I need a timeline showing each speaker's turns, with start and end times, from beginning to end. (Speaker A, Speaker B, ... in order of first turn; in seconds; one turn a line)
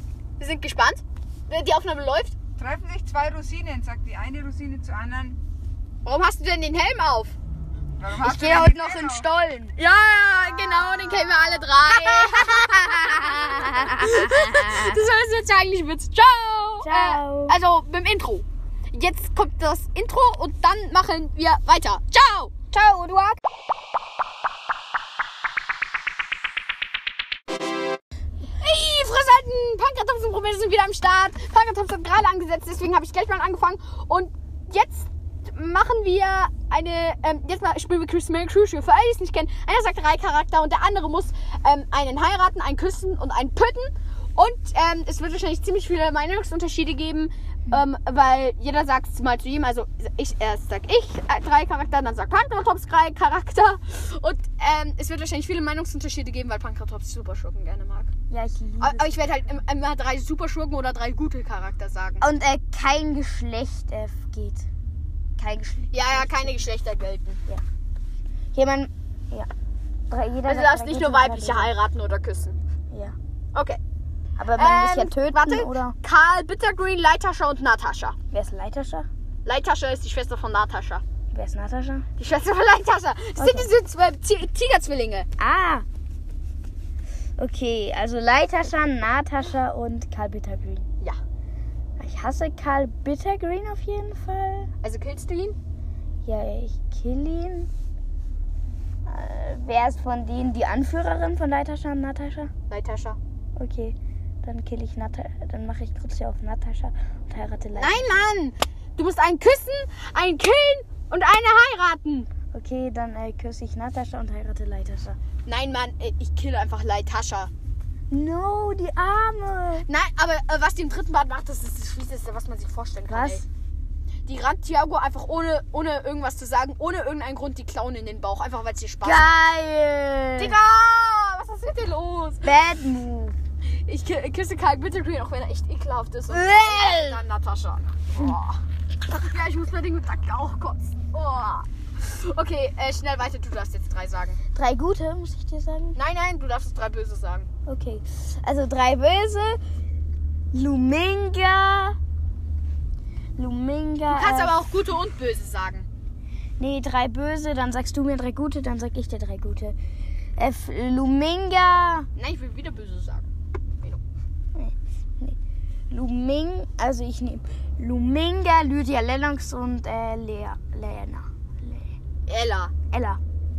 Speaker A: 0.4-2.4
Speaker B: 2.6-5.4
Speaker A: 6.0-7.4
Speaker B: 8.0-9.3
Speaker C: 8.2-9.8
Speaker A: 9.8-22.6
Speaker C: 10.5-14.9
Speaker C: 16.8-17.6
Speaker C: 22.7-23.4
Speaker A: 28.6-58.1
Speaker C: 58.3-59.5
Speaker A: 58.8-62.3
Speaker C: 62.2-64.7
Speaker C: 65.4-66.6
Speaker A: 65.9-67.4
Speaker C: 68.5-69.5
Speaker C: 70.1-71.7
Speaker A: 70.5-72.6
Speaker A: 73.5-73.8
Speaker C: 74.4-76.0
Speaker A: 74.5-78.2
Speaker C: 78.3-79.1
Speaker A: 79.5-81.0
Speaker C: 81.3-82.1
Speaker A: 82.2-85.3
Speaker C: 83.4-83.7
Speaker C: 85.4-85.9
Speaker C: 87.4-90.9
Speaker C: 92.0-94.7
Speaker A: 94.8-95.6
Speaker C: 96.2-97.7
Speaker C: 99.1-102.5
Speaker A: 102.7-103.2
Speaker C: 103.6-108.3
Speaker A: 107.8-112.3
Speaker C: 112.5-115.2
Speaker A: 115.5-117.5
Speaker C: 118.1-119.9
Speaker A: 119.8-123.5
Speaker C: 123.1-123.5
Speaker A: 124.3-129.4
Speaker C: 129.0-130.6
Speaker A: 130.4-132.6
Speaker C: 132.4-133.4
Speaker A: 133.6-144.4
Speaker C: 136.3-137.2
Speaker C: 144.5-146.0
Speaker A: 145.9-147.5
Speaker C: 147.7-149.6
Speaker C: 150.5-152.0
Speaker C: 153.4-154.6
Speaker A: 154.1-155.9
Speaker C: 156.6-159.8
Speaker C: 160.4-162.1
Speaker A: 162.2-163.3
Speaker C: 164.6-165.4
Speaker C: 165.9-171.9
Speaker A: 172.3-172.7
Speaker C: 172.9-173.2